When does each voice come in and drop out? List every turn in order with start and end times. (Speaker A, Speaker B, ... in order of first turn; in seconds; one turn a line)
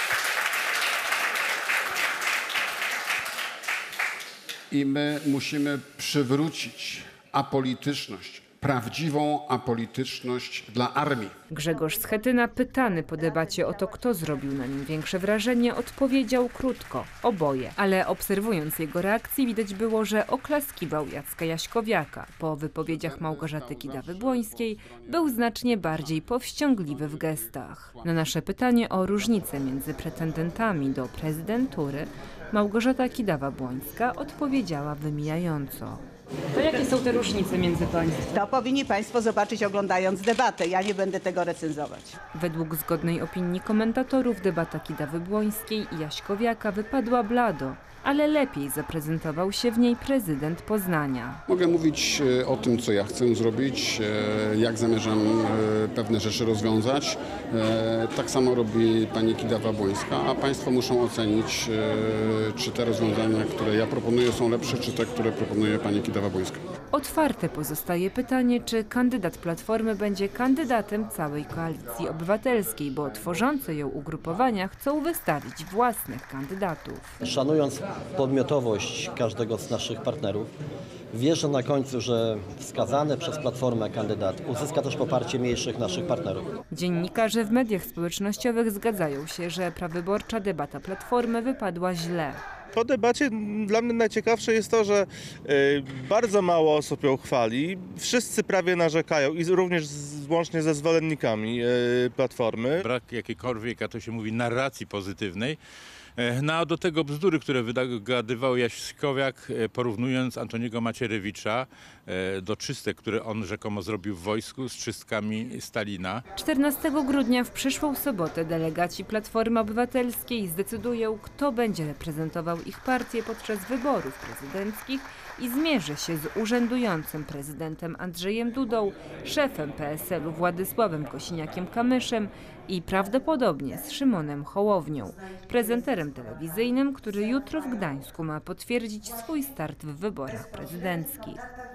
Speaker A: 4.7-11.3
Speaker B: 11.5-38.3
Speaker A: 22.9-26.2
Speaker A: 26.9-28.2
Speaker C: 38.3-42.2
Speaker B: 42.3-51.4
Speaker A: 51.5-66.7
Speaker B: 66.9-77.1
Speaker D: 77.2-80.5
Speaker D: 81.1-86.5
Speaker B: 86.7-92.4
Speaker E: 92.7-102.8
Speaker F: 102.8-105.6
Speaker F: 106.2-116.2
Speaker B: 116.3-141.5